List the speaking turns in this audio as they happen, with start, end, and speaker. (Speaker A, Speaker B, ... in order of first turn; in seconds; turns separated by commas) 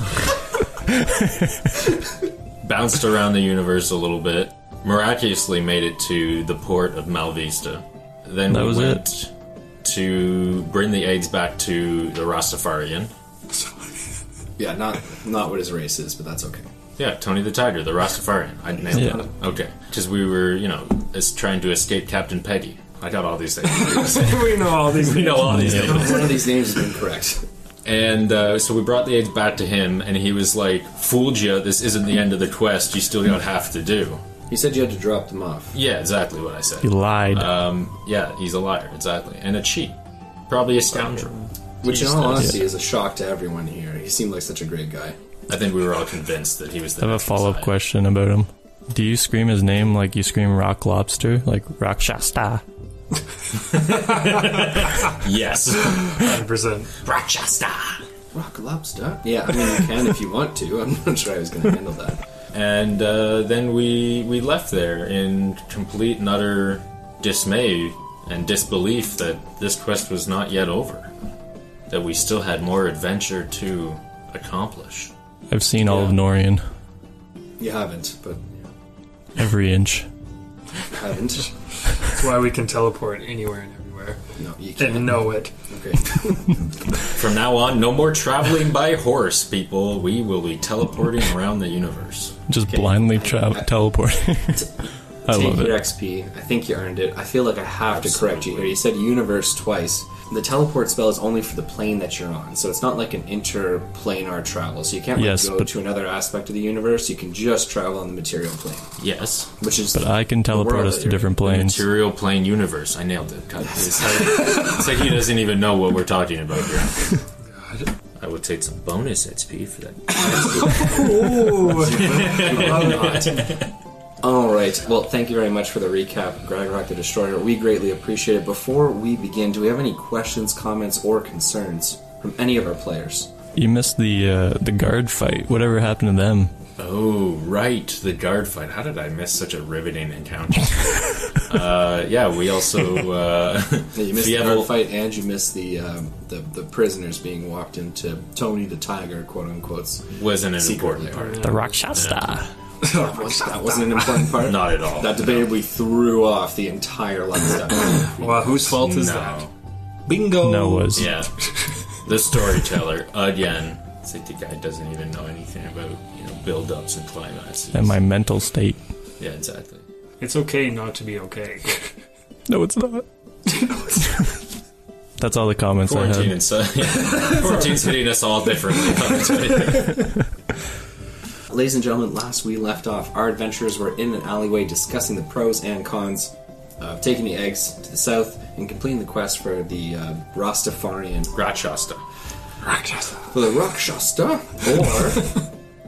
Speaker A: 2.6-9.3, Speaker B: 8.5-9.0, Speaker A: 9.8-13.1, Speaker C: 14.6-16.7, Speaker A: 17.0-26.5, Speaker D: 23.6-26.5, Speaker B: 25.4-26.1, Speaker C: 25.7-27.4, Speaker A: 27.8-34.2, Speaker C: 34.5-35.8, Speaker A: 35.7-39.9, Speaker B: 36.8-37.5, Speaker A: 40.5-42.6, Speaker C: 41.8-45.2, Speaker A: 45.5-47.7, Speaker B: 47.0-52.6, Speaker A: 53.7-56.3, Speaker D: 56.0-56.9, Speaker A: 57.0-58.0, Speaker C: 58.3-62.2, Speaker A: 62.5-71.1, Speaker A: 71.9-75.1, Speaker B: 75.5-76.6, Speaker C: 75.9-76.2, Speaker C: 77.6-78.5, Speaker B: 79.4-80.1, Speaker C: 80.9-81.5, Speaker D: 82.0-84.2, Speaker C: 84.4-86.6, Speaker D: 84.8-85.5, Speaker A: 87.1-92.4, Speaker B: 92.5-94.7, Speaker C: 92.7-93.7, Speaker C: 94.5-108.9, Speaker B: 95.2-95.8, Speaker A: 97.9-98.8, Speaker B: 105.2-105.7, Speaker A: 109.0-109.5, Speaker C: 109.6-111.4, Speaker B: 109.9-111.8, Speaker A: 111.4-117.2, Speaker D: 117.5-117.9, Speaker A: 118.2-120.9, Speaker C: 120.2-123.5, Speaker D: 120.3-123.4, Speaker A: 121.9-123.7, Speaker C: 124.2-133.3, Speaker B: 133.6-136.5, Speaker A: 136.8-144.7, Speaker C: 143.9-151.4, Speaker A: 150.2-152.4, Speaker D: 151.1-151.9, Speaker B: 151.4-152.5, Speaker D: 152.8-154.3, Speaker C: 152.9-158.6, Speaker A: 154.3-155.5, Speaker D: 157.9-159.4, Speaker A: 158.7-159.5, Speaker D: 160.1-161.1, Speaker B: 160.4-161.1, Speaker A: 160.9-167.9, Speaker B: 167.7-168.8, Speaker A: 169.2-169.8, Speaker D: 170.2-172.0, Speaker B: 172.5-173.1, Speaker D: 173.4-174.1, Speaker B: 175.2-176.3, Speaker A: 175.8-180.1, Speaker D: 177.0-177.6, Speaker C: 181.5-191.3, Speaker A: 191.3-192.0, Speaker D: 192.7-193.3, Speaker C: 193.3-195.4